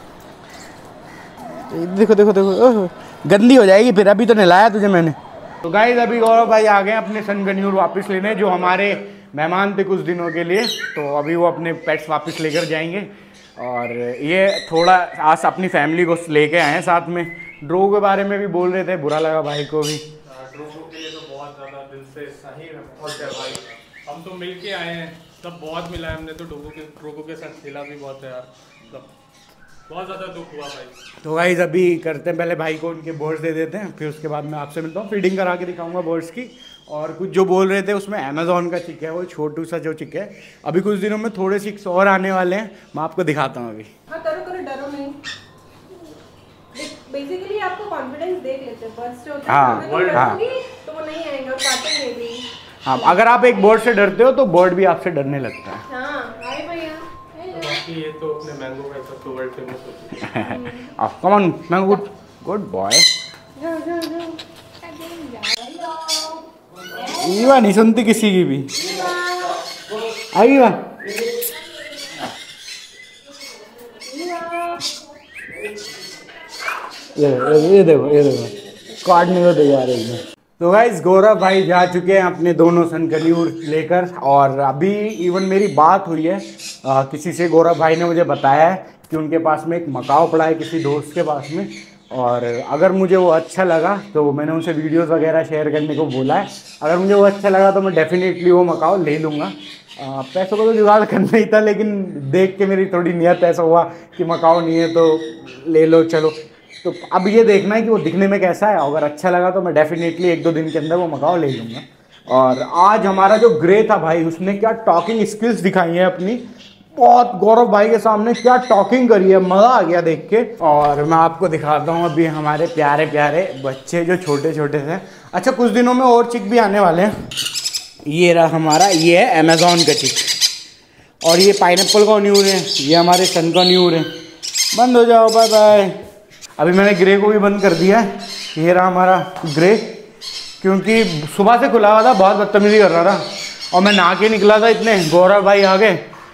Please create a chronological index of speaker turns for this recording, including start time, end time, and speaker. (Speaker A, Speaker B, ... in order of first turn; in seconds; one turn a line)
Speaker A: 1.7-20.0
Speaker B: 20.2-29.1
Speaker B: 29.9-31.0
Speaker A: 31.2-43.9
Speaker C: 44.1-45.2
Speaker C: 46.7-52.5
Speaker A: 49.5-50.4
Speaker B: 49.7-50.3
Speaker A: 52.8-55.8
Speaker C: 55.9-57.7
Speaker B: 57.5-60.3
Speaker A: 60.1-63.1
Speaker C: 60.4-60.9
Speaker C: 63.6-66.4
Speaker A: 67.0-69.1
Speaker C: 68.9-69.5
Speaker A: 70.3-71.1
Speaker C: 73.9-74.9
Speaker A: 77.1-127.1
Speaker A: 128.1-130.3
Speaker A: 131.2-134.1
Speaker A: 134.7-136.0
Speaker A: 136.6-140.0
Speaker A: 140.6-146.0